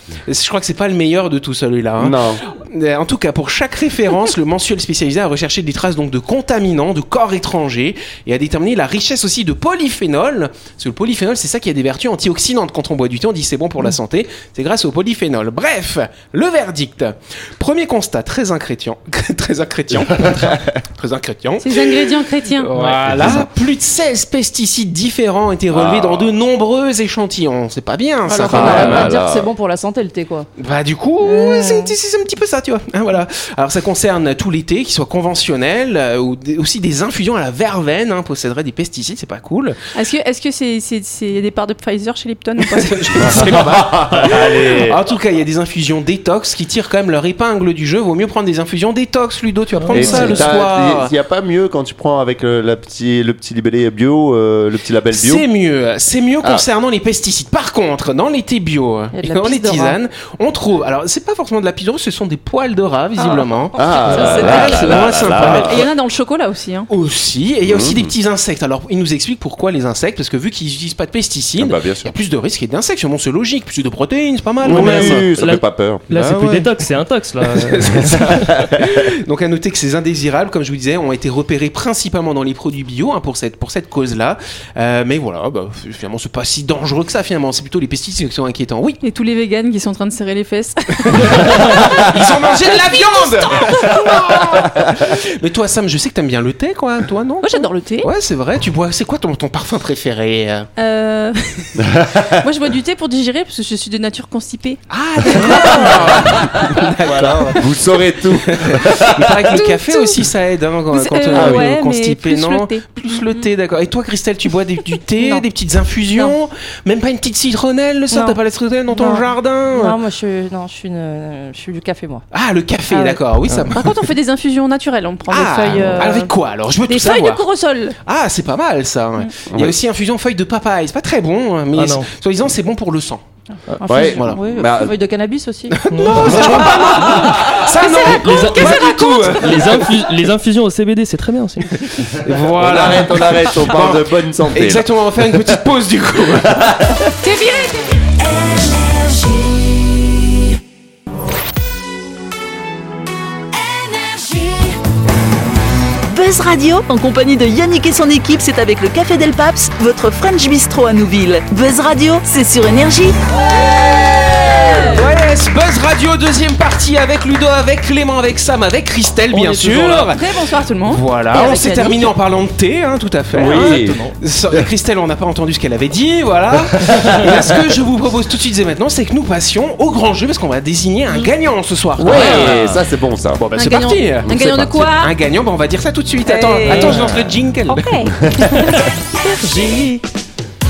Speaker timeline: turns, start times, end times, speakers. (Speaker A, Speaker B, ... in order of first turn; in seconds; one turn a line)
Speaker A: 0.3-29.1
Speaker B: 2.0-2.4
Speaker B: 19.9-20.7
Speaker C: 21.6-22.7
Speaker D: 22.8-23.4
Speaker B: 23.0-23.5
Speaker B: 25.7-26.4
Speaker E: 28.2-30.5
Speaker B: 28.5-29.5
Speaker A: 30.6-39.8
Speaker E: 31.2-31.9
Speaker C: 39.9-43.5
Speaker A: 42.7-51.1
Speaker B: 43.2-45.0
Speaker D: 49.8-50.5
Speaker B: 49.9-55.4
Speaker A: 55.1-65.9
Speaker E: 59.1-60.0
Speaker E: 63.2-63.5
Speaker B: 63.8-65.8
Speaker C: 63.8-66.9
Speaker D: 64.1-65.7
Speaker A: 66.9-75.3
Speaker B: 67.6-68.1
Speaker B: 71.6-72.1
Speaker B: 74.6-76.6
Speaker D: 74.7-78.4
Speaker A: 76.2-76.6
Speaker A: 77.5-89.0
Speaker C: 89.0-94.5
Speaker A: 91.1-100.7
Speaker C: 97.4-98.1
Speaker C: 100.8-106.5
Speaker B: 101.8-102.4
Speaker A: 104.9-107.7
Speaker B: 105.4-106.4
Speaker B: 107.0-109.6
Speaker A: 108.5-120.0
Speaker C: 109.5-110.2
Speaker C: 110.9-113.4
Speaker B: 111.3-111.7
Speaker E: 115.2-115.4
Speaker E: 118.1-122.2
Speaker A: 122.3-124.0
Speaker E: 122.9-123.3
Speaker C: 123.7-126.3
Speaker A: 125.3-127.4
Speaker E: 125.6-126.2
Speaker C: 126.9-128.0
Speaker A: 128.0-133.2
Speaker B: 129.5-129.8
Speaker D: 131.8-132.1
Speaker E: 133.7-136.3
Speaker B: 133.9-134.9
Speaker A: 134.2-134.4
Speaker A: 135.7-139.9
Speaker D: 135.9-137.1
Speaker C: 137.5-139.6
Speaker D: 137.9-142.1
Speaker A: 142.2-146.7
Speaker B: 142.4-145.4
Speaker B: 146.4-147.1
Speaker C: 147.2-148.1
Speaker C: 154.1-154.3
Speaker F: 156.1-163.2
Speaker A: 164.2-170.2
Speaker C: 164.4-164.8
Speaker D: 169.3-170.1
Speaker C: 169.7-172.1
Speaker A: 170.9-182.6
Speaker B: 173.3-174.0
Speaker D: 173.4-174.2
Speaker B: 176.7-177.4
Speaker B: 182.0-183.4
Speaker D: 182.1-182.8
Speaker A: 183.3-188.0
Speaker C: 183.6-185.1
Speaker B: 184.3-184.9
Speaker C: 186.2-186.9
Speaker D: 186.7-187.2
Speaker C: 187.7-188.7
Speaker B: 188.2-188.8
Speaker D: 189.4-190.0